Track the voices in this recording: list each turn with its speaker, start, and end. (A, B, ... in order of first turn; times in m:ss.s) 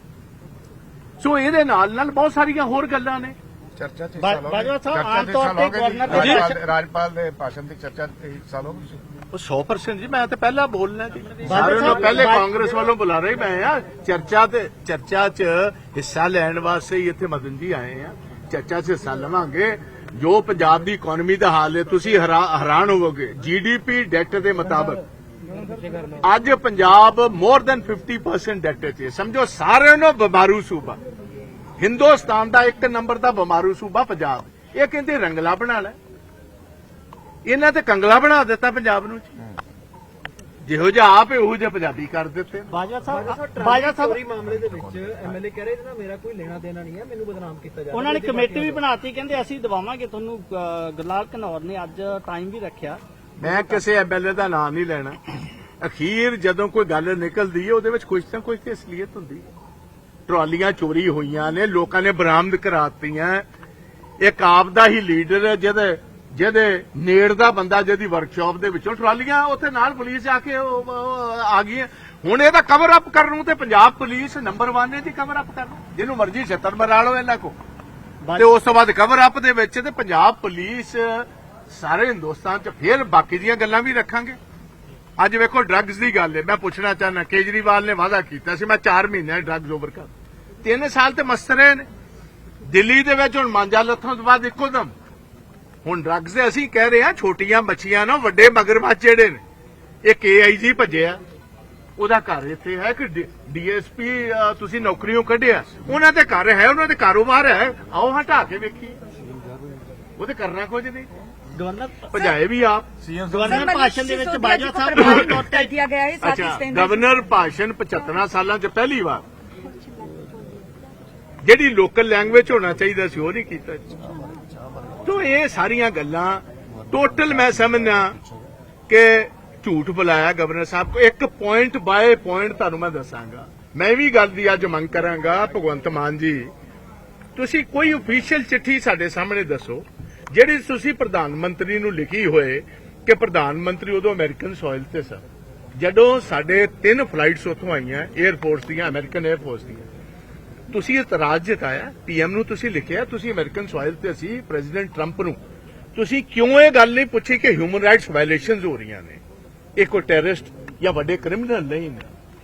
0:01.2-0:03.4 A
0:03.8-0:09.0 B
0:04.2-0:06.6 C
0:06.1-0:06.4 A
0:09.3-0:25.0 A
0:11.4-0:12.5 C
0:26.2-0:31.0 A
0:31.8-0:36.0 A
0:37.4-0:39.3 A
0:40.6-0:42.7 A
0:42.7-0:44.2 C
0:43.1-0:48.8 D
0:47.9-0:53.0 C
0:53.4-0:55.2 A
0:55.8-0:59.5 A
1:00.3-1:03.4 A
1:04.2-1:17.6 A
1:18.2-1:18.5 C
1:18.4-1:24.4 A
1:25.2-1:30.1 A
1:30.6-1:31.8 A
1:32.6-1:34.9 A
1:35.8-1:39.4 A
1:40.0-1:41.2 A
1:42.0-1:49.0 A
1:50.2-1:51.1 A
1:51.5-1:52.1 C
1:52.1-1:52.9 A
1:52.1-1:52.4 E
1:53.1-1:53.5 B
1:53.3-1:55.7 C
1:53.5-1:57.2 E
1:54.9-1:55.4 A
1:56.2-1:59.2 A
1:59.6-2:00.9 E
2:01.4-2:04.0 A
2:04.0-2:04.5 E
2:05.0-2:08.2 A
2:08.9-2:16.5 A
2:17.4-2:25.2 A
2:25.8-2:29.9 A
2:30.7-2:35.4 A
2:35.9-2:39.2 A
2:39.8-2:42.1 A